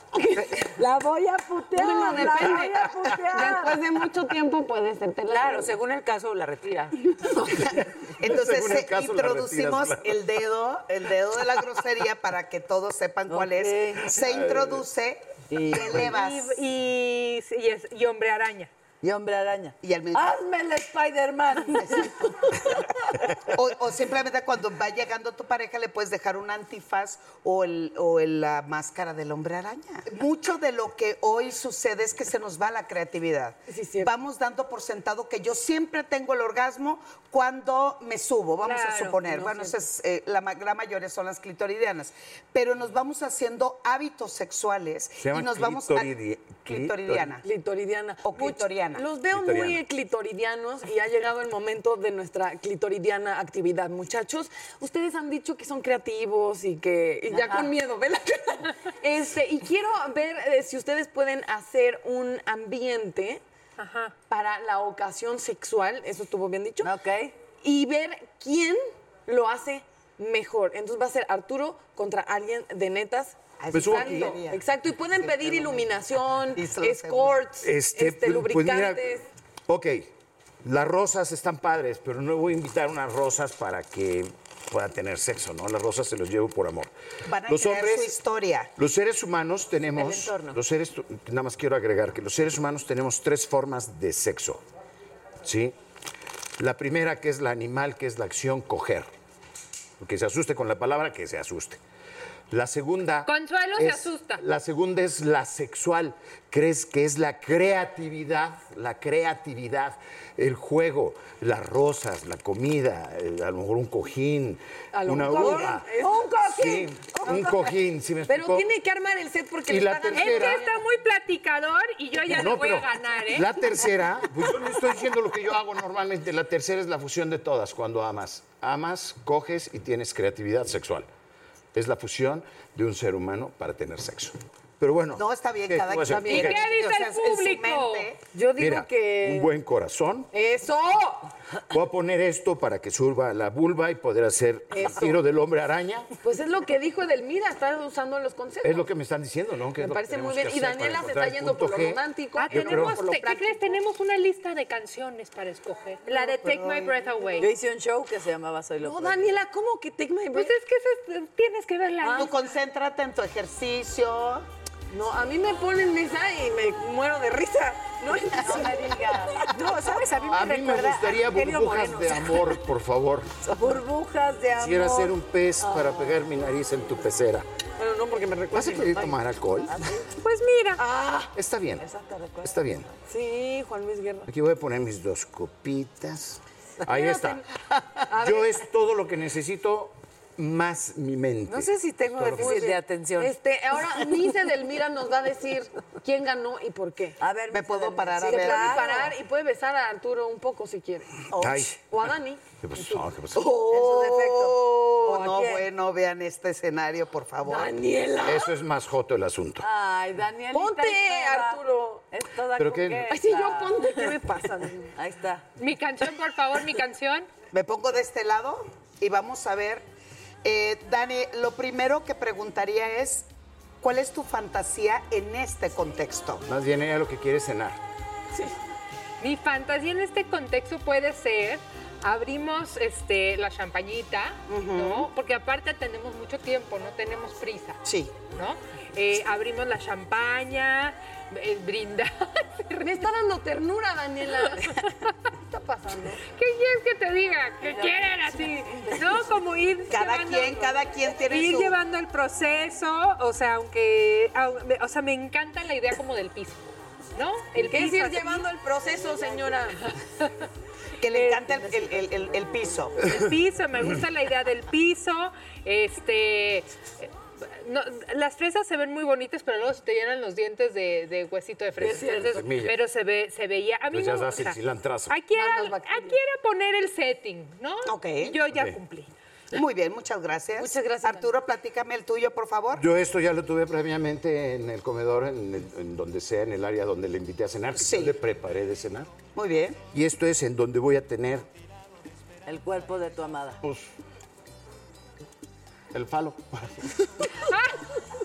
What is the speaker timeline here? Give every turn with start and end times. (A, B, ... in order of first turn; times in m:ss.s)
0:00.2-0:00.8 A
0:00.5-0:03.8 B
0:01.6-0:05.7 A
0:02.1-0:02.5 C
0:05.3-0:07.0 D
0:07.6-0:16.6 C
0:08.2-0:10.2 E
0:13.3-0:14.1 B
0:14.0-0:14.8 E
0:15.5-0:16.1 B
0:15.7-0:16.1 E
0:16.0-0:18.7 F
0:19.0-0:22.2 B
0:19.8-0:20.4 C
0:23.5-0:47.4 C
0:33.7-0:34.1 A
0:38.6-0:39.2 F
0:39.2-0:39.7 A
0:45.2-0:47.3 E
0:47.4-1:03.4 A
0:48.2-0:49.0 C
0:49.2-0:49.8 E
0:57.3-0:57.7 B
1:03.8-1:04.1 F
1:04.3-1:06.9 A
1:06.8-1:07.4 B
1:07.5-1:19.2 A
1:13.6-1:14.6 C
1:13.7-1:14.4 E
1:15.2-1:15.8 C
1:16.5-1:17.4 C
1:17.6-1:19.1 E
1:19.7-1:20.1 E
1:20.6-1:26.9 E
1:27.2-1:28.7 C
1:27.4-1:28.2 E
1:28.8-1:34.6 E
1:29.9-1:30.6 D
1:35.4-1:35.7 E
1:36.6-1:39.1 E
1:40.0-1:41.8 E
1:42.5-1:58.7 E
1:43.2-1:44.4 F
1:54.9-2:00.6 A
1:59.6-2:00.6 E
2:00.1-2:03.5 F
2:02.3-2:11.1 E
2:11.7-2:16.6 E
2:15.2-2:18.2 C
2:16.1-2:16.5 A
2:16.3-2:18.1 F
2:18.3-2:19.5 A
2:18.5-2:20.3 E
2:20.3-2:21.3 A
2:21.7-2:26.1 E
2:24.7-2:25.2 A
2:26.2-2:28.9 A
2:28.6-2:33.1 E
2:29.8-2:33.0 A
2:32.3-2:37.5 F
2:32.9-2:33.4 C
2:36.1-2:37.0 C
2:37.4-2:39.4 B
2:38.8-2:40.5 A
2:40.3-2:42.4 F
2:42.1-2:44.4 C
2:44.9-2:50.9 A
2:48.3-2:52.4 B
2:50.3-2:53.3 E
2:53.4-2:55.1 B
2:54.5-2:57.4 E
2:55.6-2:56.2 A
2:57.8-2:59.1 A
2:58.5-2:59.8 E
2:59.7-3:00.0 B
3:00.2-3:00.8 F
3:00.8-3:01.2 A
3:01.3-3:01.8 E
3:01.8-3:02.6 B
3:02.4-3:02.9 E
3:03.1-3:04.3 A
3:04.3-3:07.4 E
3:06.9-3:07.4 A
3:08.1-3:08.6 A
3:08.1-3:12.7 E
3:11.5-3:13.4 D
3:12.3-3:17.2 A
3:17.2-3:19.1 B
3:17.5-3:19.1 C
3:18.2-3:21.1 A
3:21.3-3:21.8 E
3:21.8-3:23.1 A
3:22.6-3:23.5 E
3:23.4-3:27.7 C
3:23.4-3:25.7 B
3:27.4-3:28.5 A
3:28.2-3:29.6 E
3:29.6-3:34.2 B
3:30.5-3:32.1 A
3:32.5-3:33.1 E
3:33.1-3:34.9 A
3:35.0-3:35.4 B
3:35.6-3:37.3 F
3:37.5-3:39.8 C
3:40.4-3:43.3 C
3:43.8-3:46.4 C
3:46.4-3:47.8 E
3:49.2-3:57.8 F
3:54.5-3:55.1 C
3:57.8-3:58.1 C
3:58.3-4:03.0 F
4:02.8-4:04.8 A
4:04.4-4:04.8 F
4:05.4-4:06.2 A
4:06.4-4:10.7 F
4:07.6-4:09.2 A
4:09.9-4:11.8 C
4:11.2-4:18.5 F
4:17.5-4:20.0 A
4:21.0-4:23.0 C
4:23.0-4:34.6 F
4:31.8-4:32.4 A
4:31.9-4:32.7 E
4:33.9-4:35.2 E
4:35.1-4:39.1 F
4:35.3-4:36.2 A
4:37.8-4:38.4 C
4:38.5-4:38.8 E
4:39.5-4:42.8 C
4:40.6-4:41.3 A
4:42.8-4:49.1 E
4:47.8-4:48.2 C
4:49.3-4:49.8 C
4:49.9-4:51.4 E
4:52.4-4:53.6 B
4:53.6-4:53.9 E
4:55.9-4:57.0 E
4:57.5-4:57.8 F